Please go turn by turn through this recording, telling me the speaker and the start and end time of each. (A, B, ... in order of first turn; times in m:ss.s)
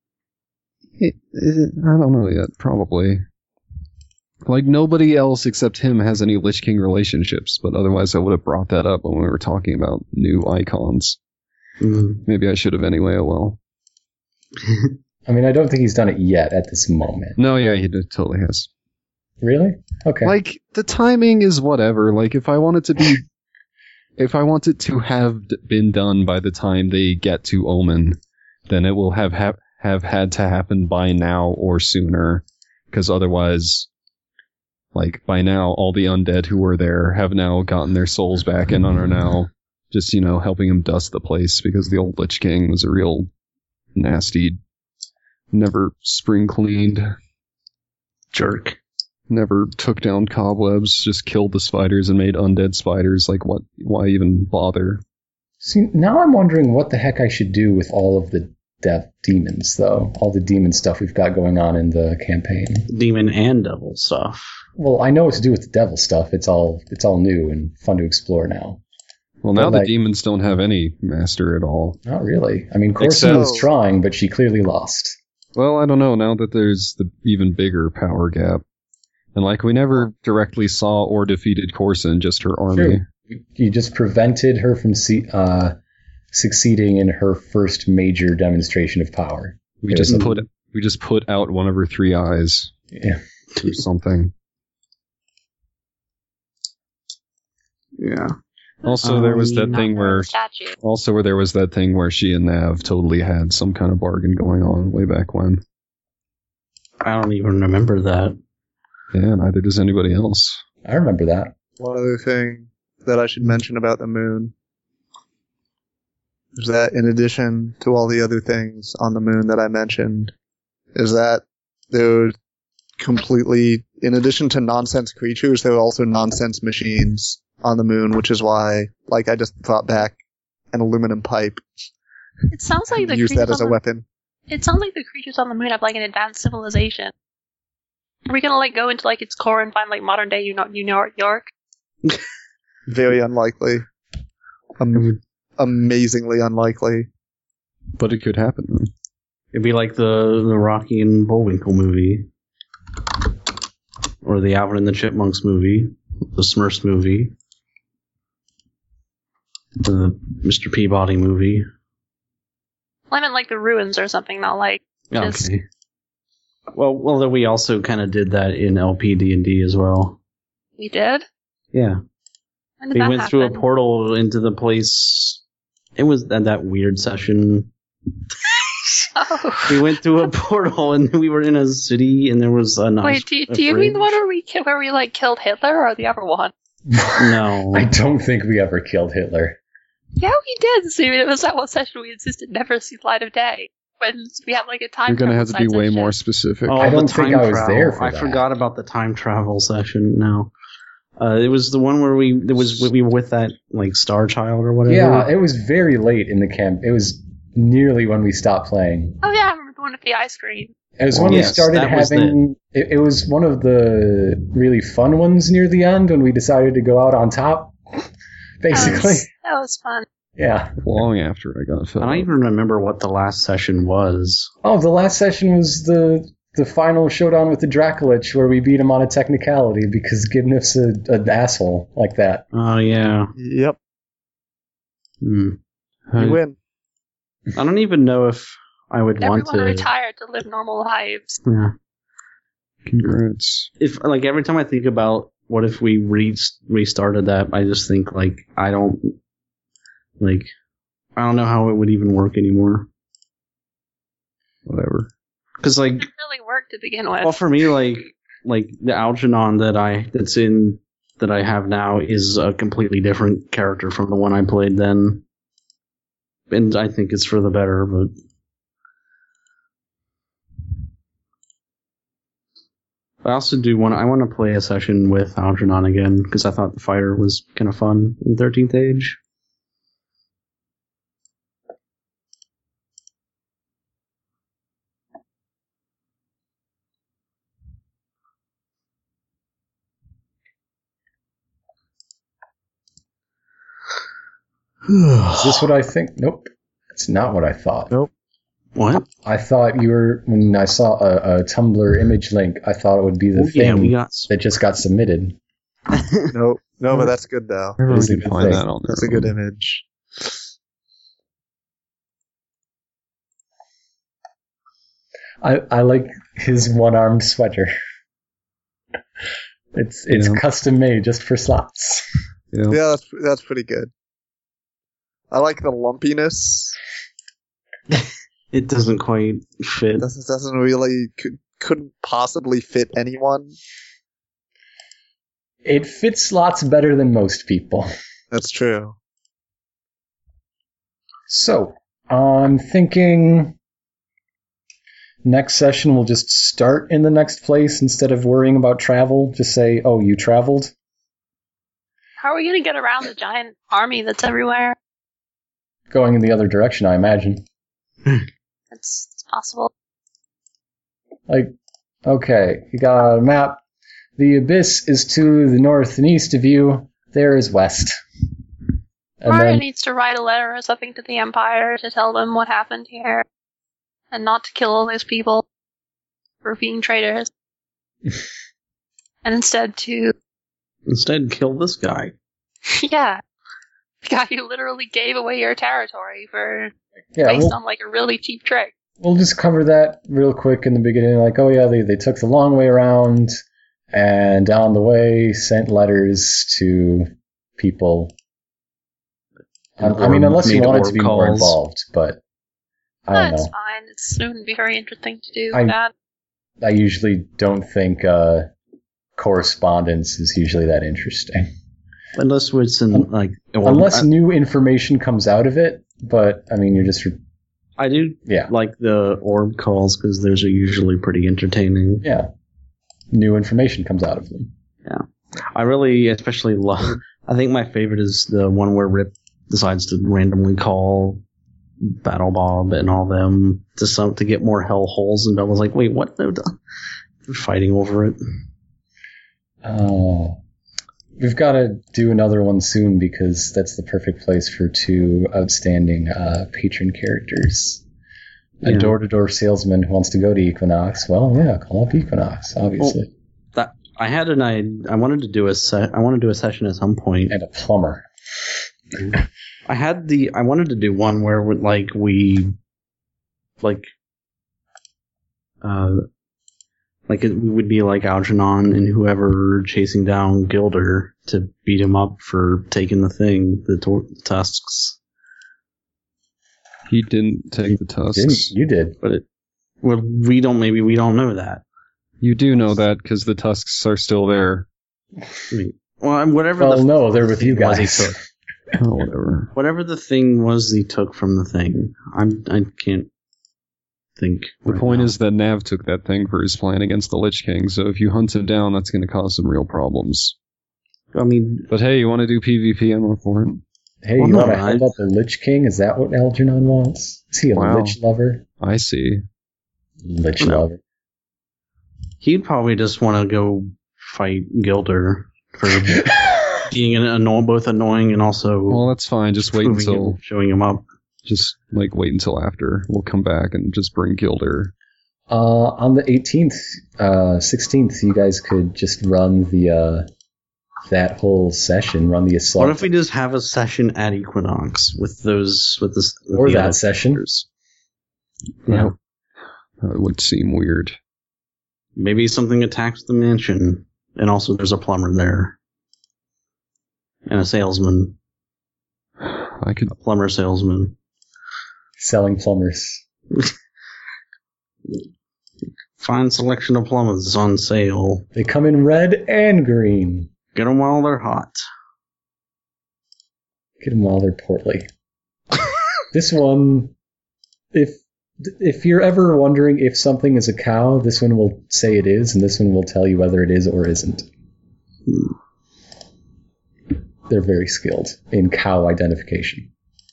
0:01.0-0:03.2 A
0:04.4-0:11.2 A
0:11.8-0:12.2 B
0:12.2-0:13.6 A
0:15.2-0:17.4 C
0:17.4-0:18.7 A
0:19.4-0:20.4 C
0:20.2-0:23.2 A
0:24.2-0:33.9 A
0:34.9-0:43.3 A
0:43.9-0:44.6 A
0:45.5-0:47.1 A
0:48.3-0:48.8 B
0:49.3-0:55.0 A
0:55.6-1:02.9 C
1:02.9-1:04.6 B
1:04.8-1:08.8 C
1:09.4-1:12.0 A
1:09.5-1:09.9 C
1:12.0-1:15.2 C
1:13.0-1:13.5 A
1:13.2-1:13.7 D
1:15.6-1:18.6 A
1:19.4-1:23.0 A
1:22.7-1:25.7 C
1:26.3-1:30.3 C
1:29.8-1:32.7 A
1:30.0-1:30.4 B
1:32.9-1:33.2 C
1:33.6-1:34.3 A
1:38.0-1:38.4 B
1:38.8-1:45.6 A
1:39.0-1:39.8 B
1:39.7-1:40.8 E
1:47.0-1:48.4 B
1:49.1-1:50.6 A
1:50.8-1:51.5 C
1:51.8-1:54.5 D
1:56.6-2:00.3 D
2:00.9-2:02.3 D
2:03.0-2:10.2 D
2:10.7-2:11.6 D
2:12.5-2:13.8 E
2:12.9-2:14.0 D
2:14.5-2:17.1 E
2:18.2-2:21.5 E
2:22.9-2:23.8 D
2:24.8-2:27.1 D
2:24.9-2:25.2 B
2:28.0-2:28.9 A
2:29.5-2:32.3 B
2:34.2-2:37.3 B
2:39.8-2:41.7 B
2:43.1-2:45.5 E
2:45.1-2:45.6 B
2:46.7-2:50.2 B
2:50.8-2:51.2 E
2:51.7-2:52.0 B
2:52.8-2:53.6 E
2:52.9-2:55.4 B
2:56.0-2:57.7 B
2:59.1-2:59.9 E
2:59.7-3:04.2 B
3:03.0-3:06.5 E
3:06.9-3:09.6 C
3:07.2-3:07.9 B
3:10.2-3:16.1 E
3:15.1-3:16.9 A
3:16.7-3:20.5 B
3:16.8-3:18.5 C
3:21.2-3:25.3 B
3:24.9-3:29.2 C
3:29.2-3:30.7 E
3:31.0-3:38.1 C
3:31.1-3:32.4 B
3:38.6-3:39.3 C
3:38.7-3:40.0 E
3:40.4-3:40.7 C
3:40.8-3:42.3 A
3:42.0-3:44.5 B
3:44.6-3:52.4 C
3:52.5-3:53.3 B
3:53.4-3:53.8 D
3:55.2-3:55.6 B
3:56.1-3:56.4 A
3:56.2-3:56.6 D
3:57.5-3:59.9 B
3:59.2-4:01.4 E
4:01.4-4:01.7 B
4:02.8-4:03.7 A
4:03.8-4:09.2 B
4:10.2-4:10.5 B
4:11.2-4:12.9 B
4:14.6-4:15.1 A
4:15.6-4:16.0 B
4:16.0-4:17.4 E
4:17.2-4:25.2 B
4:26.5-4:28.1 B
4:33.2-4:39.2 B
4:54.9-4:55.5 B
4:55.4-4:57.9 C
4:58.8-4:59.1 B
4:59.2-5:05.4 C
5:03.4-5:04.3 B
5:05.9-5:06.3 B
5:06.3-5:07.8 D
5:07.8-5:09.3 A
5:07.9-5:08.7 C
5:08.4-5:10.3 D
5:15.4-5:17.7 C
5:19.7-5:22.0 C
5:20.1-5:20.4 A
5:22.5-5:22.8 A
5:22.7-5:23.9 D
5:25.3-5:26.8 D
5:27.9-5:30.1 B
5:30.0-5:33.5 D
5:35.6-5:37.9 C
5:38.3-5:39.0 D
5:41.3-5:43.6 C
5:45.2-5:50.7 C
5:52.2-5:54.8 E
5:55.9-5:57.4 C
5:58.7-5:59.7 E
6:01.3-6:01.5 C
6:02.0-6:03.6 C
6:04.2-6:08.0 C
6:09.2-6:09.6 C
6:09.2-6:13.2 E
6:14.1-6:15.4 E
6:16.4-6:17.3 E
6:19.2-6:20.1 E
6:20.9-6:22.1 B
6:22.7-6:23.2 E
6:24.0-6:26.7 E
6:27.2-6:27.6 C
6:27.2-6:28.7 E
6:29.0-6:33.4 C
6:33.9-6:38.1 C
6:39.8-6:42.2 C
6:39.8-6:41.6 B
6:43.0-6:43.5 C
6:43.1-6:45.9 E
6:45.5-6:45.8 C
6:46.6-6:48.5 C
6:49.2-6:51.5 C
6:52.2-6:54.1 B
6:53.6-6:57.2 C
6:57.8-7:02.0 B
6:58.2-6:58.5 C
7:02.0-7:02.3 C
7:03.1-7:04.5 C
7:04.8-7:11.2 B
7:11.8-7:16.6 B
7:17.2-7:18.2 B
7:19.6-7:20.4 C
7:21.2-7:27.8 C
7:28.6-7:33.1 C
7:28.6-7:28.9 B
7:33.5-7:37.4 B
7:37.3-7:38.1 C
7:39.7-7:42.5 B
7:43.6-7:43.9 B
7:45.6-7:46.0 B
7:47.1-7:55.0 B
7:56.9-7:58.5 A
7:57.7-7:59.0 C
7:59.8-8:01.6 B
8:02.2-8:04.7 A
8:05.5-8:08.2 B
8:06.6-8:08.2 C
8:08.8-8:09.5 A
8:09.5-8:13.1 B
8:14.2-8:15.1 B
8:14.7-8:20.4 A
8:21.1-8:21.7 B
8:21.7-8:23.6 A
8:24.0-8:28.4 C
8:24.2-8:24.9 B
8:27.5-8:28.0 A
8:28.6-8:29.2 A
8:30.0-8:30.8 C
8:30.4-8:30.6 B
8:32.2-8:38.9 B
8:38.7-8:40.2 A
8:39.6-8:40.8 B
8:41.2-8:44.7 A
8:45.3-8:50.1 C
8:50.9-8:52.9 C
8:52.6-8:57.4 B
8:56.3-8:57.2 C
8:58.6-8:58.9 B
8:58.7-8:58.9 A
8:59.8-9:01.0 A
9:02.0-9:05.6 B
9:07.2-9:08.2 B
9:09.2-9:09.9 A
9:09.9-9:10.9 B
9:12.0-9:13.0 C
9:16.0-9:18.3 B
9:18.3-9:20.3 C
9:20.5-9:21.6 B
9:23.8-9:24.9 C
9:26.1-9:26.9 C
9:27.7-9:34.3 C
9:37.3-9:39.7 C